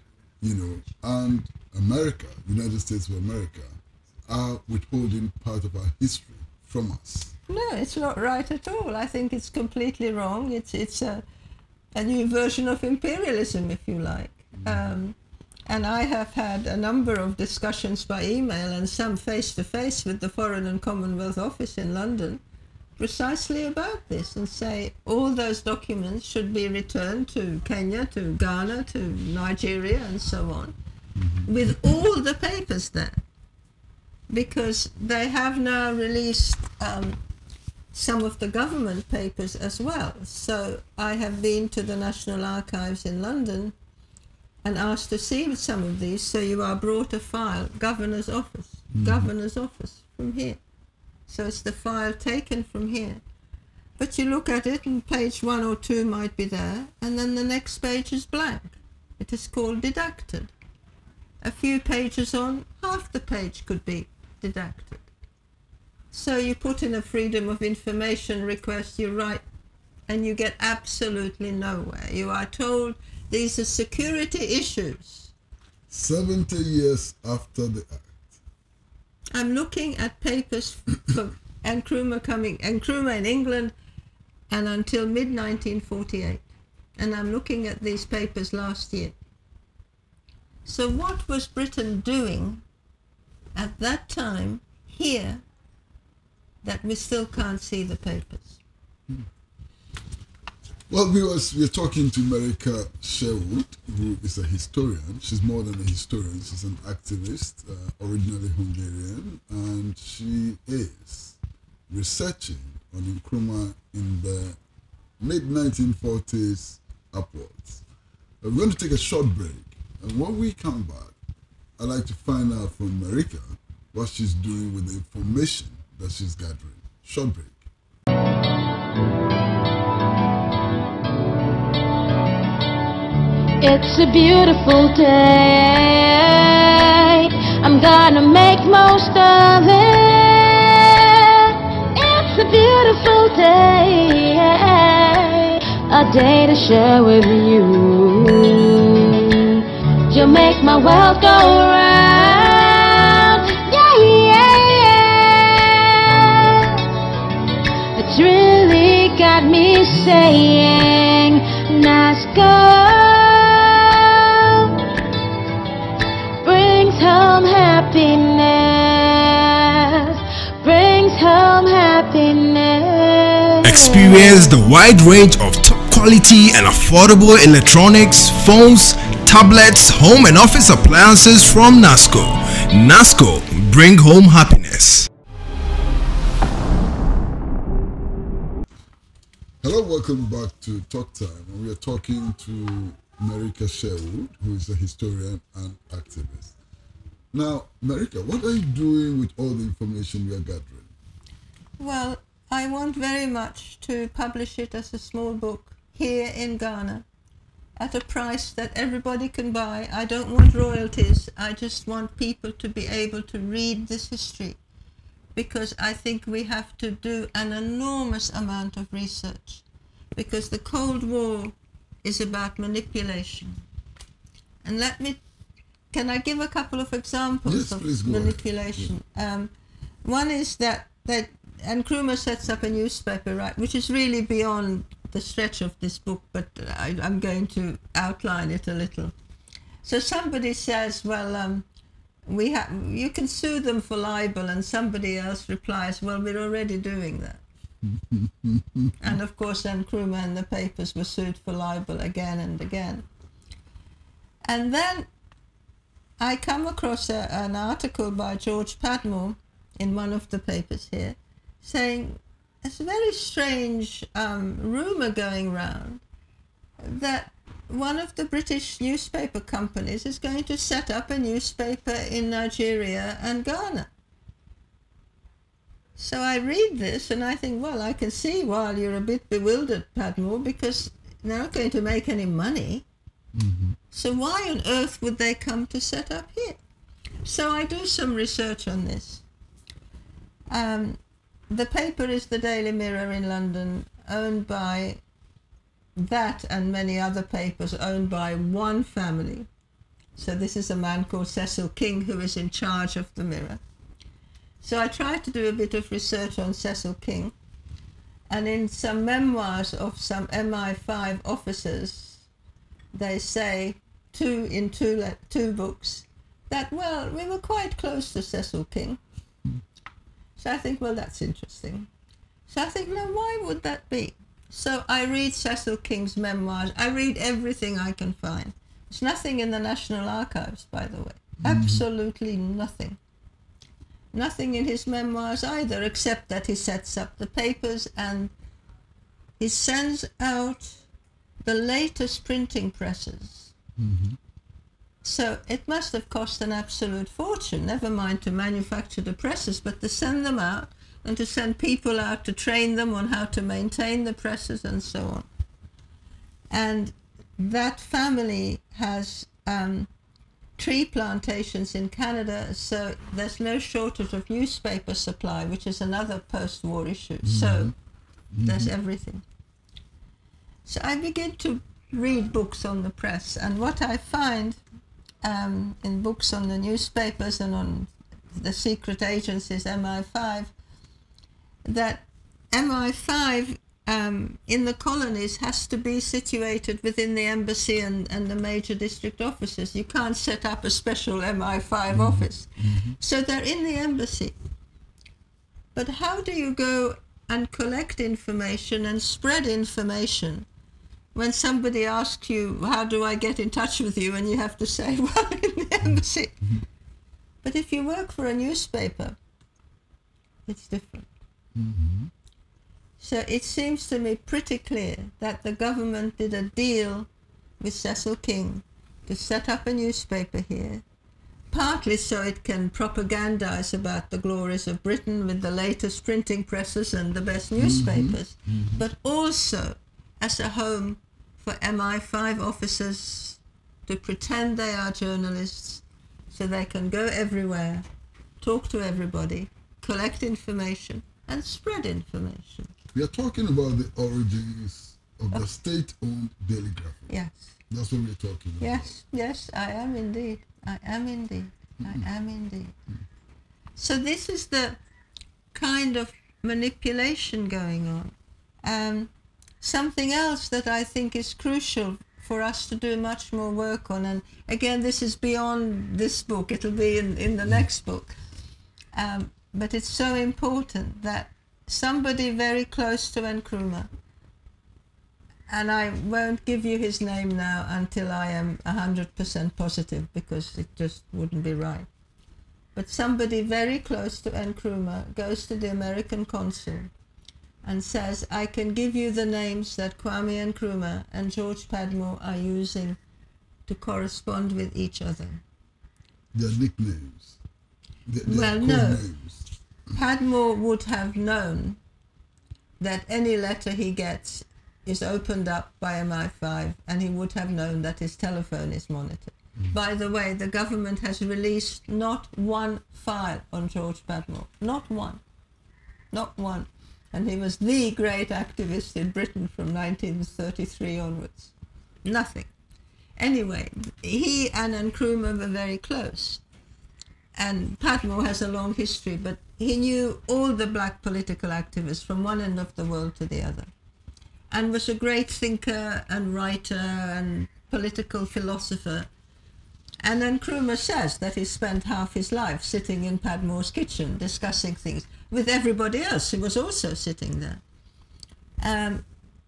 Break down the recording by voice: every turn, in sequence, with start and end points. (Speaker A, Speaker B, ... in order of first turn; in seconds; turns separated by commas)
Speaker A: 0.4-7.3, Speaker B: 7.5-11.2, Speaker B: 11.9-15.2, Speaker A: 14.6-14.9, Speaker B: 15.7-22.4, Speaker B: 23.0-30.8, Speaker A: 31.2-31.8, Speaker B: 31.4-33.2, Speaker B: 34.3-37.2, Speaker B: 37.9-43.7, Speaker B: 44.6-50.6, Speaker A: 48.9-49.3, Speaker B: 51.3-53.2, Speaker B: 54.0-60.5, Speaker B: 61.4-65.0, Speaker B: 66.1-69.4, Speaker B: 70.1-75.3, Speaker A: 75.9-78.4, Speaker B: 79.3-83.7, Speaker B: 84.5-86.4, Speaker B: 87.0-89.2, Speaker B: 90.7-92.6, Speaker B: 93.5-95.4, Speaker B: 96.6-98.6, Speaker A: 100.9-114.6, Speaker A: 115.2-117.8, Speaker A: 118.4-121.1, Speaker A: 121.8-127.6, Speaker C: 133.6-156.8, Speaker C: 157.9-164.7, Speaker C: 166.4-174.5, Speaker D: 173.6-185.1, Speaker A: 189.6-196.6, Speaker A: 197.3-200.9, Speaker B: 201.8-207.0, Speaker B: 207.8-214.6, Speaker B: 215.3-223.6, Speaker B: 224.6-225.2, Speaker B: 225.9-229.5, Speaker A: 227.4-228.9, Speaker B: 230.0-239.1, Speaker B: 239.8-241.7, Speaker B: 242.2-247.4, Speaker A: 247.8-249.2, Speaker B: 249.0-253.1, Speaker B: 254.4-255.1, Speaker B: 256.2-266.0, Speaker B: 266.8-273.9, Speaker B: 276.0-282.8, Speaker A: 283.3-283.8, Speaker B: 283.9-286.6, Speaker B: 287.2-289.2, Speaker B: 290.5-291.0, Speaker B: 291.5-295.0, Speaker B: 295.9-299.5, Speaker B: 300.1-303.6, Speaker B: 304.6-307.3, Speaker B: 308.3-312.2, Speaker B: 312.9-319.0, Speaker B: 320.4-321.9, Speaker B: 322.5-333.0, Speaker A: 331.4-331.8, Speaker B: 334.1-338.3, Speaker B: 339.4-340.8, Speaker B: 341.4-343.5, Speaker A: 343.8-344.2, Speaker B: 345.0-355.2, Speaker B: 356.5-359.9, Speaker B: 360.6-367.7, Speaker A: 367.2-367.7, Speaker A: 368.3-368.7, Speaker B: 368.4-369.2, Speaker B: 370.6-374.6, Speaker B: 375.2-380.5, Speaker B: 381.6-394.3, Speaker A: 391.9-393.0, Speaker B: 395.7-400.4, Speaker B: 401.1-406.4, Speaker B: 407.4-409.1, Speaker B: 410.5-411.1, Speaker A: 411.5-412.1, Speaker B: 413.0-417.1, Speaker B: 417.6-420.8, Speaker B: 421.5-437.9, Speaker A: 427.6-428.8, Speaker B: 438.4-442.7, Speaker A: 442.9-447.1, Speaker B: 447.1-447.5, Speaker A: 447.7-448.9, Speaker B: 448.6-452.7, Speaker B: 453.8-454.8, Speaker B: 455.5-459.1, Speaker B: 459.6-468.1, Speaker B: 468.9-473.9, Speaker B: 475.5-481.9, Speaker B: 482.7-486.9, Speaker B: 487.6-493.0, Speaker B: 493.7-495.4, Speaker A: 496.3-497.4, Speaker A: 498.1-499.5, Speaker B: 498.2-499.1, Speaker B: 499.9-501.8, Speaker B: 502.8-515.2, Speaker B: 516.1-521.5, Speaker B: 522.0-522.5, Speaker B: 523.2-526.4, Speaker B: 527.4-533.7, Speaker B: 534.5-539.1, Speaker B: 540.0-547.6, Speaker B: 548.6-549.0